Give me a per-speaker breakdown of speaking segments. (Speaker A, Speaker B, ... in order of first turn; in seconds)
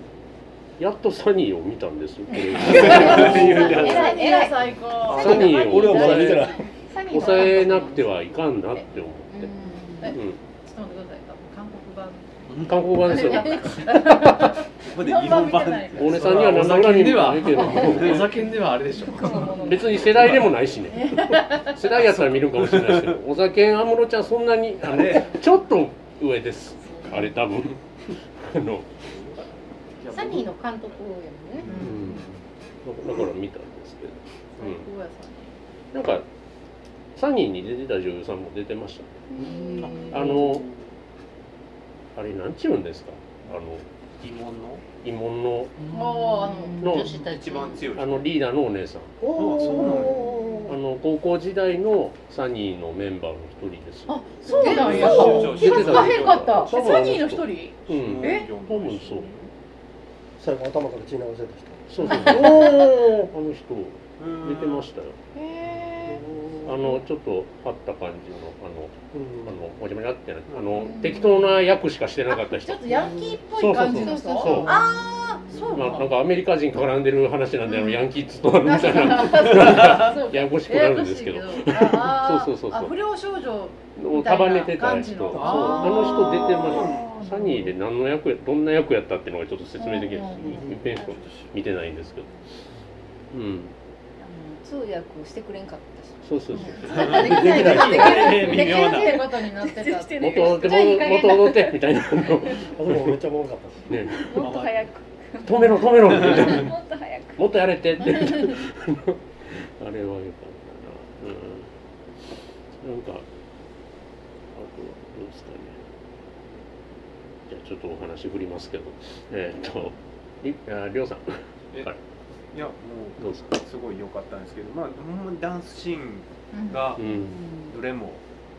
Speaker A: 0.8-4.0, 5.1-9.5, 10.1-10.4, 12.6-14.3, 15.9-18.3, 19.6-27.8, 28.4-28.9, 31.8-32.2, 32.9-34.9, 35.9-36.2, 37.1-39.1, 40.1-40.7, 42.1-43.9, 45.0-45.7, 46.8-47.2, 48.0-49.1, 50.7-59.3, 61.9-65.2, 66.7-68.9, 69.5-73.0, 73.5-74.9, 75.7-82.9, 84.0-92.3, 93.3-93.7, 96.2-97.1, 100.2-103.1, 103.9-104.6, 105.4-106.7, 107.4-111.7, 112.8-113.2, 114.5-115.8, 117.5-122.0, 123.2-123.6, 127.0-127.4
Speaker B: 2.3-6.6, 10.0-16.2, 19.3-19.9, 20.9-21.8, 31.7-32.0, 34.6-35.6, 39.8-40.1, 45.9-46.9, 54.5-56.0, 56.6-58.5, 72.3-76.2, 78.6-87.7, 89.8-90.7, 96.5-100.7, 126.5-126.9
Speaker C: 2.7-4.2, 14.8-16.6, 22.0-23.2, 24.8-25.4, 29.1-29.4, 31.7-31.9, 44.2-44.8, 47.1-48.3, 49.3-50.3, 54.5-56.6, 57.9-59.5, 64.2-64.9, 70.5-71.0, 79.6-80.1, 86.1-87.0, 90.8-91.5, 96.8-99.2, 104.4-104.8, 122.5-127.0, 127.7-128.2
Speaker D: 2.9-4.6, 6.8-8.9, 30.1-31.9, 46.8-47.9, 54.1-56.8, 65.3-66.2, 73.8-74.9, 96.8-98.9, 100.5-101.7
Speaker E: 5.1-6.6, 49.2-50.7, 60.4-63.0, 66.1-66.7, 69.1-69.6, 85.3-85.7, 97.0-98.2, 102.7-103.9
Speaker F: 9.4-10.1, 19.1-19.9, 39.3-40.4, 46.0-46.8, 70.9-71.3, 94.2-101.4, 102.4-102.7, 104.1-107.5, 127.0-127.7
Speaker G: 16.0-20.6, 30.0-30.5, 31.7-32.3